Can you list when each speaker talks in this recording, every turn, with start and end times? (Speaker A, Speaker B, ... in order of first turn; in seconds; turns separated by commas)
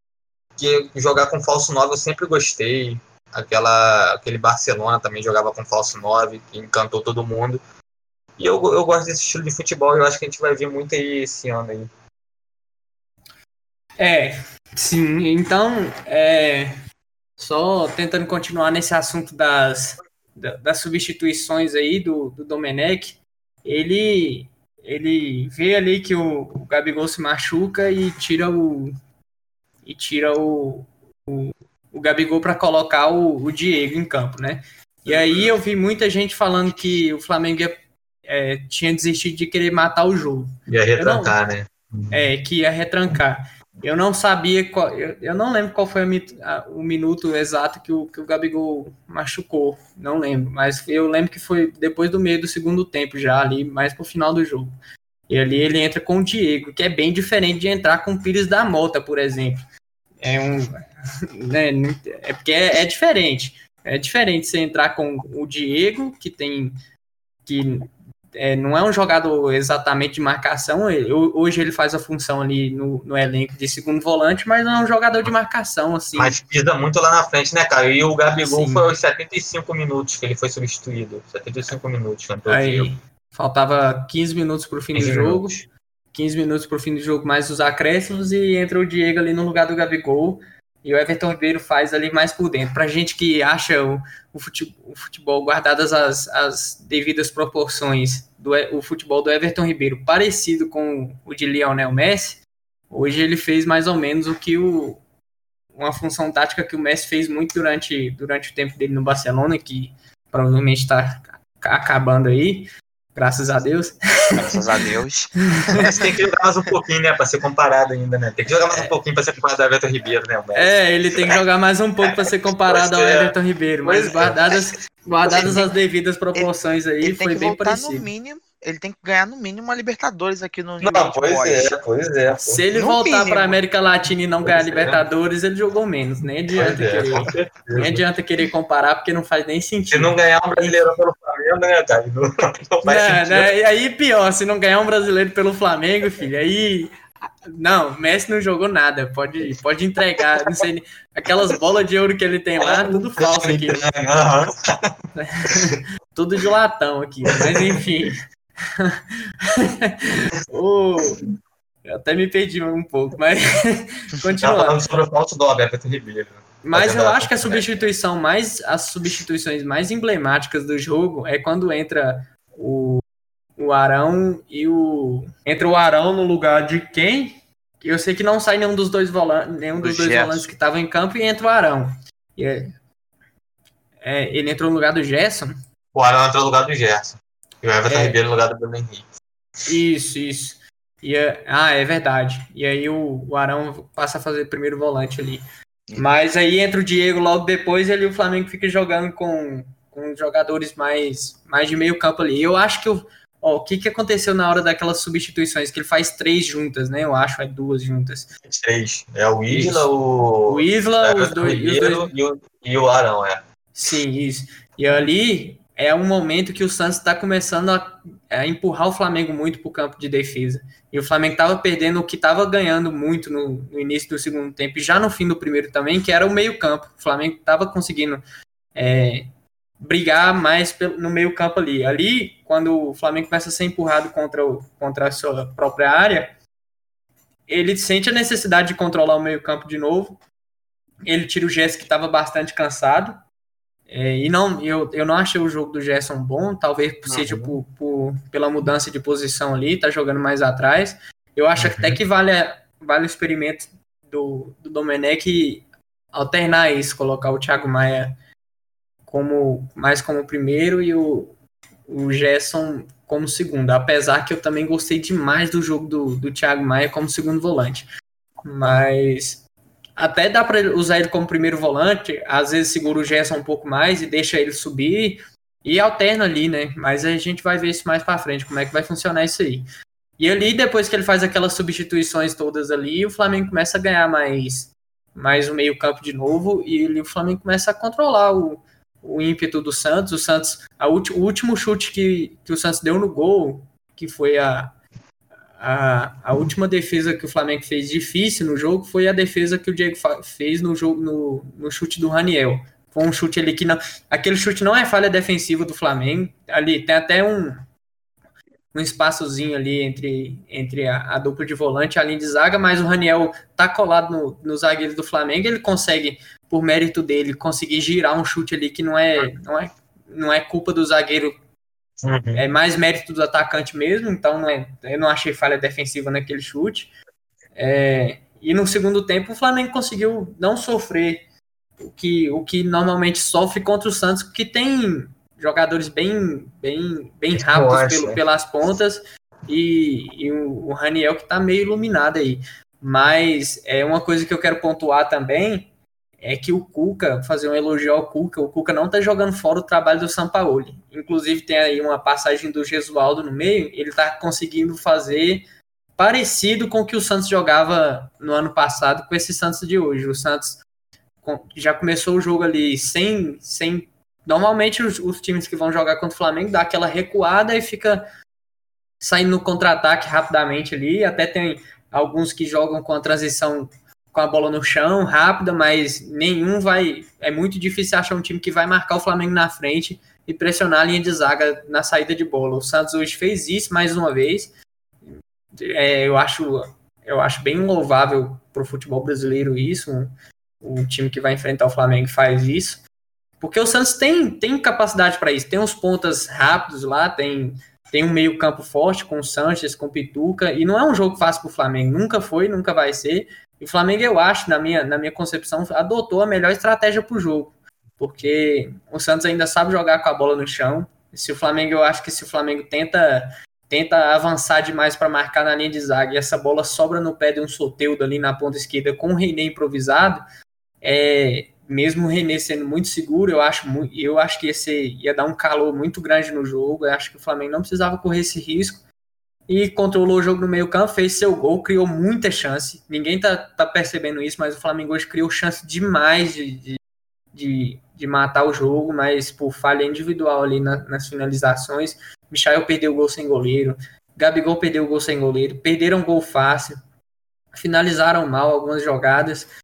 Speaker A: 0.6-7.6, Speaker A: 8.4-11.9, Speaker B: 14.0-16.7, Speaker B: 17.4-28.9, Speaker B: 29.8-41.3, Speaker A: 35.0-35.5, Speaker A: 40.7-42.2, Speaker B: 42.1-54.7, Speaker B: 55.3-59.6, Speaker B: 60.2-60.7, Speaker B: 61.4-66.7, Speaker B: 67.5-76.3, Speaker A: 76.2-82.9, Speaker B: 78.4-78.9, Speaker B: 82.5-105.0, Speaker A: 84.9-85.7, Speaker B: 105.7-114.0, Speaker C: 114.4-116.1, Speaker A: 115.8-120.8, Speaker B: 120.5-128.1, Speaker A: 122.7-124.6, Speaker C: 126.3-131.8, Speaker A: 130.8-132.6, Speaker B: 132.4-140.8, Speaker C: 132.7-133.6, Speaker A: 134.4-135.0, Speaker A: 136.5-138.0, Speaker A: 139.9-143.5, Speaker B: 142.8-146.9, Speaker B: 147.5-153.8, Speaker A: 152.6-154.5, Speaker B: 155.2-158.2, Speaker B: 158.8-161.2, Speaker B: 161.8-164.8, Speaker A: 164.4-167.9, Speaker B: 166.6-173.0, Speaker B: 173.6-182.7, Speaker C: 179.8-180.5, Speaker B: 184.0-185.5, Speaker A: 185.9-189.1, Speaker B: 187.8-188.2, Speaker B: 189.7-195.4, Speaker B: 195.9-208.3, Speaker A: 208.5-213.4, Speaker B: 209.5-209.9, Speaker B: 210.5-212.1, Speaker B: 213.8-228.2, Speaker B: 228.7-229.3, Speaker B: 229.8-236.3, Speaker B: 237.5-240.2, Speaker B: 241.1-243.2, Speaker B: 243.9-258.1, Speaker A: 247.1-247.6, Speaker A: 251.6-252.0, Speaker B: 259.1-261.3, Speaker B: 261.9-267.9, Speaker B: 268.4-269.4, Speaker B: 270.0-279.6, Speaker B: 280.2-294.7, Speaker B: 295.6-307.6, Speaker B: 308.7-321.3, Speaker A: 322.0-322.4, Speaker B: 322.3-326.9, Speaker B: 327.5-331.2, Speaker B: 331.8-345.7, Speaker A: 337.4-338.2, Speaker B: 346.2-355.4, Speaker B: 356.0-360.6, Speaker B: 361.2-368.0, Speaker B: 369.0-384.5, Speaker B: 385.6-390.1, Speaker B: 390.6-392.8, Speaker B: 393.4-420.2, Speaker B: 420.8-428.8, Speaker B: 429.5-436.8, Speaker B: 437.3-446.8, Speaker B: 447.5-449.5